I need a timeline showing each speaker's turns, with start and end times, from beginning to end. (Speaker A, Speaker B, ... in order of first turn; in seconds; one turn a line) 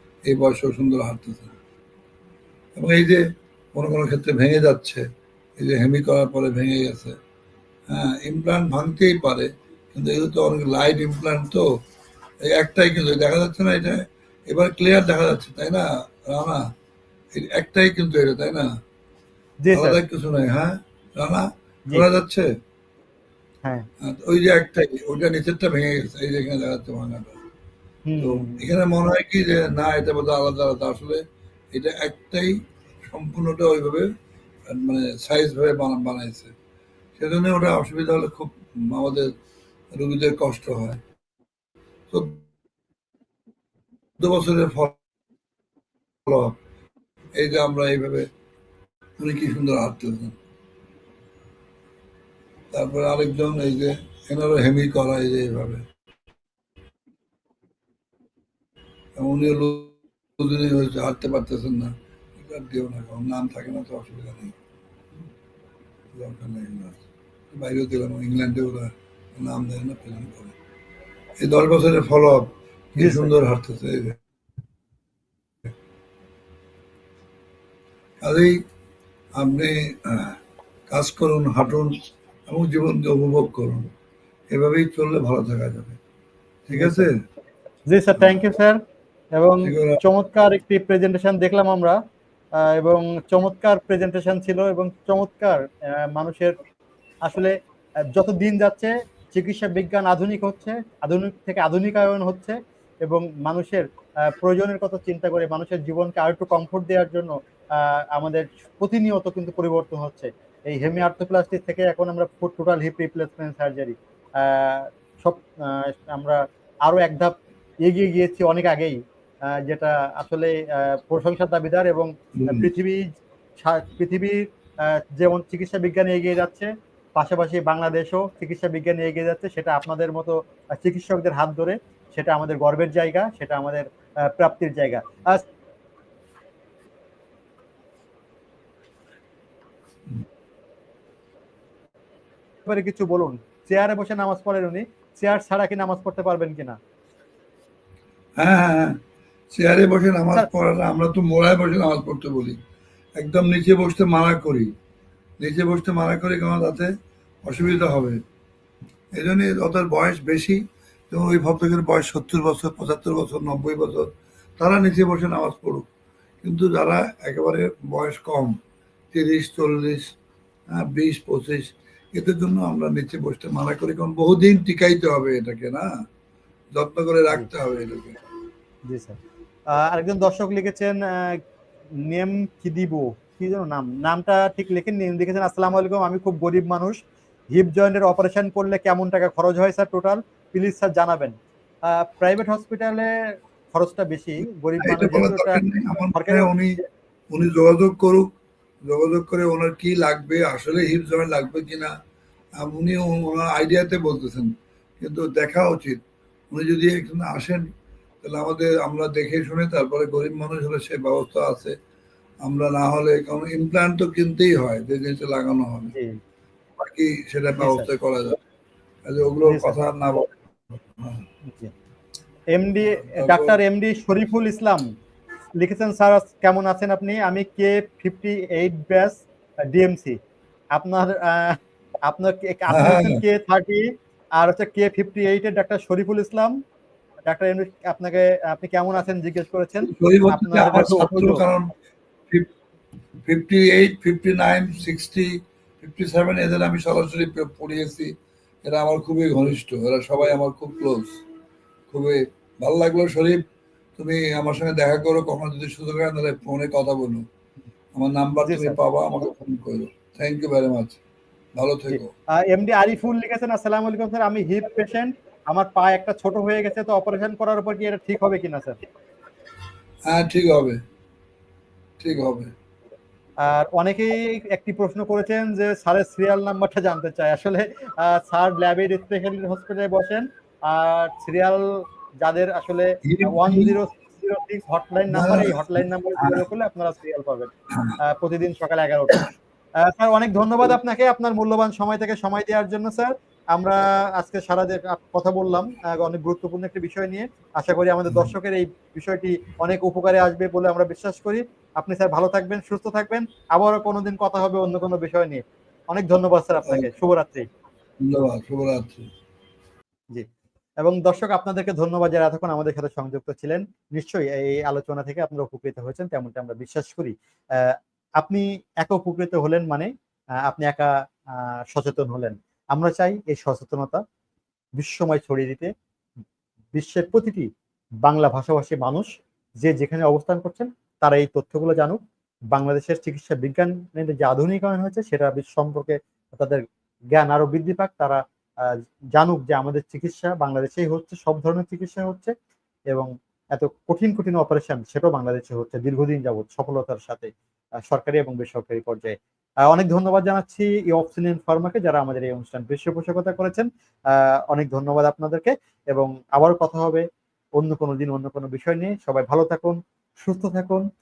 Speaker A: 0.2-1.6
Speaker A: 2.8-5.0
Speaker A: 5.6-7.2
Speaker A: 7.9-11.7
Speaker A: 12.4-16.6
Speaker A: 17.3-18.7
Speaker B: 19.6-20.0
Speaker A: 19.7-22.5
Speaker A: 24.0-27.4
Speaker B: 28.1-28.7
Speaker A: 28.2-34.1
Speaker A: 34.7-36.5
Speaker A: 37.1-39.3
Speaker A: 39.9-41.0
Speaker A: 42.1-42.5
Speaker A: 44.2-45.0
Speaker A: 46.2-46.6
Speaker A: 47.4-48.3
Speaker A: 49.2-50.4
Speaker A: 52.7-55.8
Speaker A: 59.2-64.5
Speaker A: 66.1-70.5
Speaker A: 71.4-74.2
Speaker B: 73.0-73.3
Speaker A: 78.2-78.6
Speaker A: 79.3-80.4
Speaker A: 80.9-83.9
Speaker A: 84.5-86.0
Speaker A: 86.7-87.1
Speaker B: 86.7-87.1
Speaker B: 87.9-88.8
Speaker B: 89.3-92.0
Speaker A: 89.6-90.0
Speaker B: 92.6-96.5
Speaker B: 97.2-97.5
Speaker B: 98.1-119.0
Speaker B: 119.5-123.0
Speaker A: 122.4-122.7
Speaker B: 123.6-135.4
Speaker B: 142.7-146.8
Speaker A: 148.4-149.0
Speaker A: 149.5-152.6
Speaker A: 153.2-154.7
Speaker A: 155.4-156.9
Speaker A: 157.4-158.2
Speaker A: 159.1-165.9
Speaker A: 166.4-168.5
Speaker A: 169.1-170.1
Speaker A: 170.7-175.9
Speaker A: 176.7-178.2
Speaker B: 178.9-179.2
Speaker B: 179.7-181.4
Speaker B: 182.0-187.0
Speaker B: 187.5-191.3
Speaker B: 191.9-193.1
Speaker B: 193.7-195.6
Speaker A: 194.8-196.8
Speaker B: 196.1-196.8
Speaker A: 197.3-198.3
Speaker A: 198.9-201.9
Speaker A: 202.6-206.0
Speaker A: 206.5-207.6
Speaker A: 208.2-211.7
Speaker A: 212.4-215.9
Speaker B: 215.9-216.2
Speaker A: 216.8-218.4
Speaker B: 217.6-217.9
Speaker A: 219.1-220.3
Speaker B: 219.4-219.8
Speaker A: 220.9-221.2
Speaker B: 221.4-221.7
Speaker B: 222.5-224.8
Speaker A: 223.1-223.6
Speaker B: 225.6-230.2
Speaker B: 230.7-233.8
Speaker A: 232.7-233.2
Speaker B: 234.4-236.5
Speaker B: 237.3-241.4
Speaker A: 239.8-241.7
Speaker A: 243.2-248.1
Speaker A: 248.6-251.1
Speaker A: 251.9-253.4
Speaker A: 254.0-257.2
Speaker A: 257.9-261.0
Speaker B: 258.4-258.8
Speaker A: 261.6-262.1
Speaker B: 261.9-268.8
Speaker A: 270.1-270.8
Speaker A: 272.0-272.5
Speaker B: 273.4-307.4
Speaker A: 283.1-283.8
Speaker A: 285.1-286.4
Speaker A: 308.0-309.1
Speaker B: 310.8-319.9
Speaker B: 320.4-324.0
Speaker B: 324.8-325.7
Speaker B: 326.7-327.5
Speaker B: 328.0-329.1
Speaker B: 329.6-332.0
Speaker B: 332.5-342.3
Speaker B: 342.9-347.3
Speaker B: 347.9-349.2
Speaker B: 349.7-357.0
Speaker B: 357.6-360.8